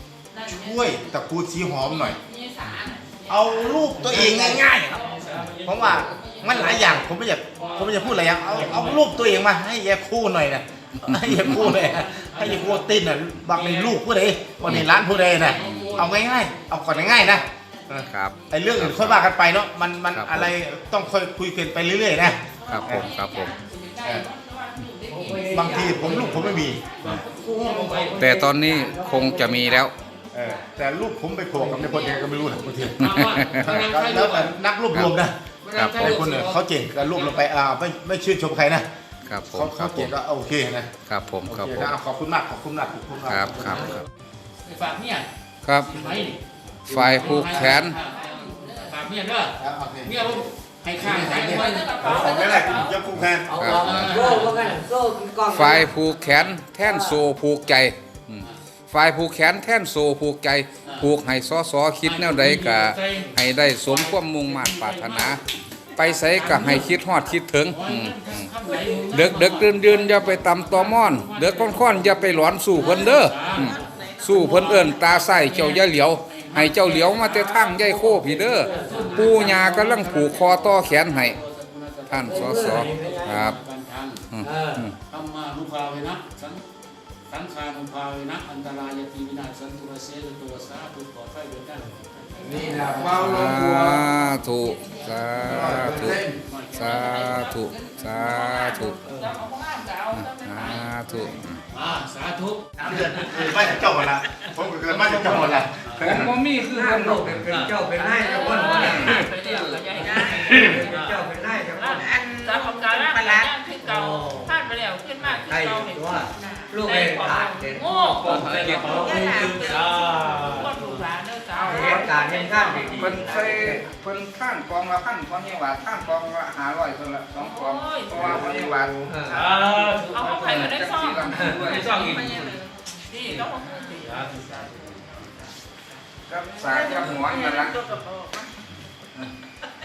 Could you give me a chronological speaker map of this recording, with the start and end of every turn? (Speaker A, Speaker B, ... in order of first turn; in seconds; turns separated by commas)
Speaker A: 0.3-0.9, Speaker B: 0.4-2.2, Speaker A: 1.9-5.2, Speaker B: 3.3-23.1, Speaker C: 3.9-4.5, Speaker C: 5.2-7.0, Speaker A: 6.1-6.4, Speaker C: 7.6-9.1, Speaker C: 11.4-12.8, Speaker C: 13.5-13.9, Speaker D: 15.6-16.0, Speaker A: 15.6-16.4, Speaker D: 18.1-19.2, Speaker D: 20.1-20.5, Speaker D: 22.7-23.6, Speaker A: 22.7-28.2, Speaker E: 25.1-26.6, Speaker B: 25.5-26.8, Speaker C: 27.0-28.2, Speaker E: 27.2-29.7, Speaker D: 28.2-29.9, Speaker A: 28.7-30.8, Speaker B: 30.3-33.0, Speaker E: 31.5-32.1, Speaker A: 31.9-32.9, Speaker C: 32.9-34.5, Speaker D: 33.0-33.7, Speaker B: 33.6-35.4, Speaker C: 35.6-36.6, Speaker D: 35.7-36.2, Speaker B: 35.9-38.9, Speaker D: 39.2-40.1, Speaker B: 39.5-40.9, Speaker D: 41.0-41.9, Speaker B: 41.5-43.9, Speaker D: 43.3-44.0, Speaker C: 44.6-45.3, Speaker D: 45.6-46.0, Speaker C: 45.9-52.1, Speaker D: 46.9-48.0, Speaker A: 48.1-49.0, Speaker B: 49.6-53.6, Speaker A: 51.5-53.0, Speaker D: 53.1-54.2, Speaker E: 53.5-55.9, Speaker C: 53.6-54.8, Speaker D: 55.5-65.4, Speaker C: 56.1-56.4, Speaker E: 56.8-57.2, Speaker C: 62.0-65.4, Speaker D: 65.9-81.4, Speaker C: 66.2-67.0, Speaker C: 67.7-84.2, Speaker E: 78.3-79.2, Speaker D: 82.1-83.6, Speaker E: 82.3-83.3, Speaker D: 84.3-85.0, Speaker E: 84.4-84.8, Speaker C: 85.0-86.6, Speaker C: 87.3-93.0, Speaker E: 92.4-94.0, Speaker D: 92.8-99.0, Speaker A: 94.8-95.3, Speaker B: 95.4-96.0, Speaker C: 95.5-97.5, Speaker E: 95.7-96.3, Speaker A: 97.2-101.0, Speaker D: 100.1-101.6, Speaker C: 101.7-103.6, Speaker E: 102.8-103.7, Speaker B: 102.8-106.3, Speaker C: 104.9-106.2, Speaker D: 106.0-107.6, Speaker E: 106.7-109.2, Speaker C: 107.5-107.8, Speaker A: 108.0-123.2, Speaker D: 108.7-110.6, Speaker E: 109.9-114.6, Speaker C: 110.4-111.2, Speaker E: 115.2-120.7, Speaker C: 118.2-121.0, Speaker D: 118.2-119.2, Speaker E: 121.6-123.8, Speaker D: 121.6-122.1, Speaker D: 123.0-129.1, Speaker A: 127.4-128.3, Speaker E: 129.0-129.4, Speaker A: 129.3-135.3, Speaker C: 129.3-130.5, Speaker D: 129.7-132.5, Speaker C: 131.6-132.6, Speaker C: 134.1-134.4, Speaker D: 136.3-137.8, Speaker A: 136.6-138.6